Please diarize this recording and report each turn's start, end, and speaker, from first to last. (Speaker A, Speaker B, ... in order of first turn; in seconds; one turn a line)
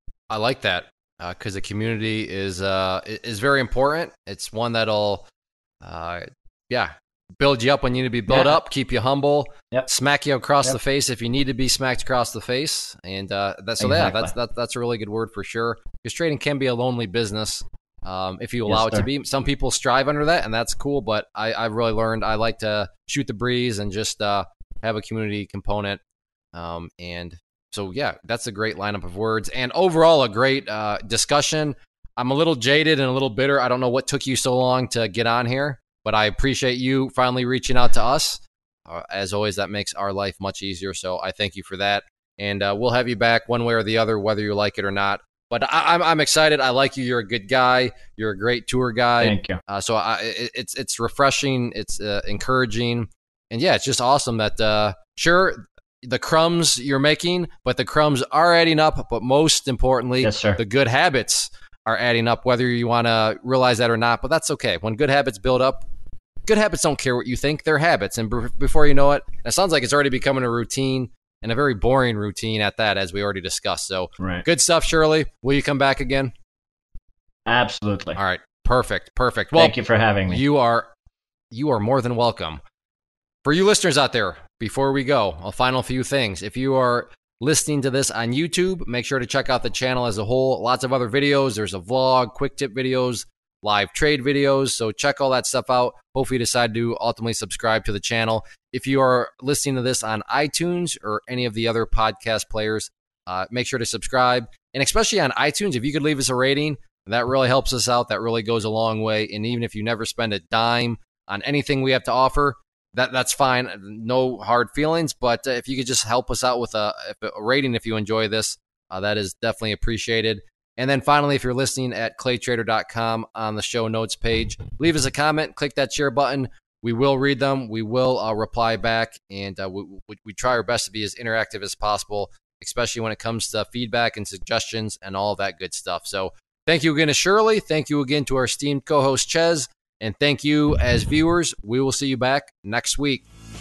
Speaker A: 0.3-5.2
Speaker A: 5.8-26.0
Speaker B: 8.3-8.5
Speaker B: 13.8-14.3
Speaker B: 18.7-19.1
Speaker A: 26.5-65.8
Speaker B: 49.2-49.6
Speaker B: 60.2-60.6
Speaker A: 66.5-76.3
Speaker B: 74.2-74.4
Speaker B: 77.5-78.2
Speaker A: 78.2-79.7
Speaker B: 79.5-80.4
Speaker A: 80.3-80.9
Speaker A: 81.5-82.6
Speaker A: 83.4-143.2